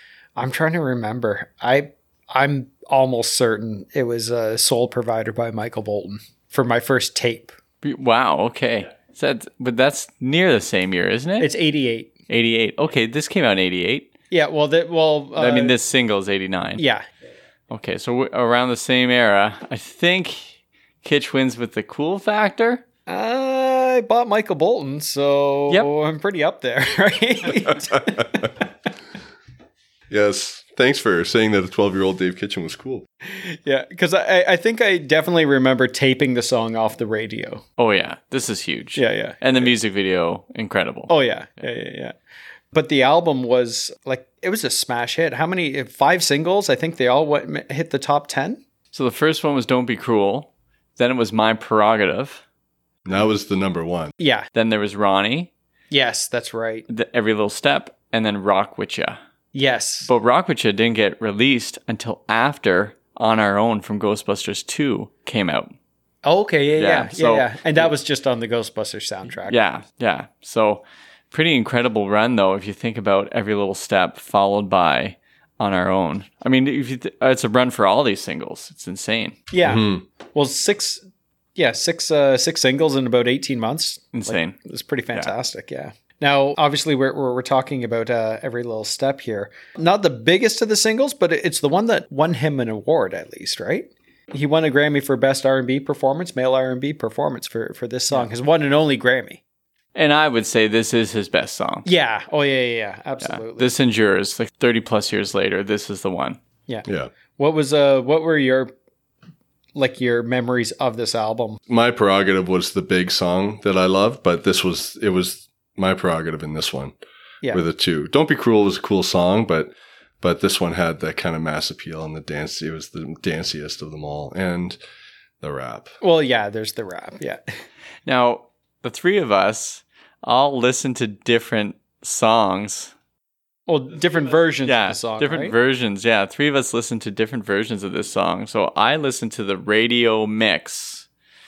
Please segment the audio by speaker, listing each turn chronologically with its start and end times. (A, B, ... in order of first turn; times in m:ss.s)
0:00.4-0:07.5 A
0:07.8-0:11.5 B
0:11.4-0:12.1 A
0:12.3-0:14.1 B
0:14.3-0:15.8 A
0:15.4-0:16.8 B
0:16.8-0:17.1 A
0:17.7-0:22.8 B
0:23.1-0:28.5 A
0:30.1-0:33.1 C
0:33.3-0:37.6 A
0:37.8-0:41.1 B
0:39.0-0:39.7 A
0:41.1-0:42.2 A
0:42.7-0:48.6 A
0:48.9-0:52.4 B
0:53.0-0:54.1 C
0:54.2-0:54.5 A
0:54.6-0:55.5 B
0:55.9-0:56.9 A
0:56.9-0:59.2 B
0:59.5-1:00.1 A
1:00.1-1:05.7 B
1:06.2-1:09.6 A
1:06.8-1:07.9 B
1:09.5-1:19.4 B
1:19.5-1:21.0 A
1:19.6-1:20.0 C
1:21.6-1:39.4 A
1:24.1-1:24.6 B
1:40.0-1:41.9 B
1:41.8-1:43.7 A
1:43.2-1:46.4 B
1:46.7-1:48.7 A
1:46.9-1:47.1 C
1:49.8-1:51.6 A
1:51.7-1:57.0 C
1:57.5-2:04.8 C
2:05.4-2:06.0 C
2:06.0-2:07.4 A
2:08.1-2:12.9 B
2:13.7-2:15.5 A
2:14.6-2:21.1 B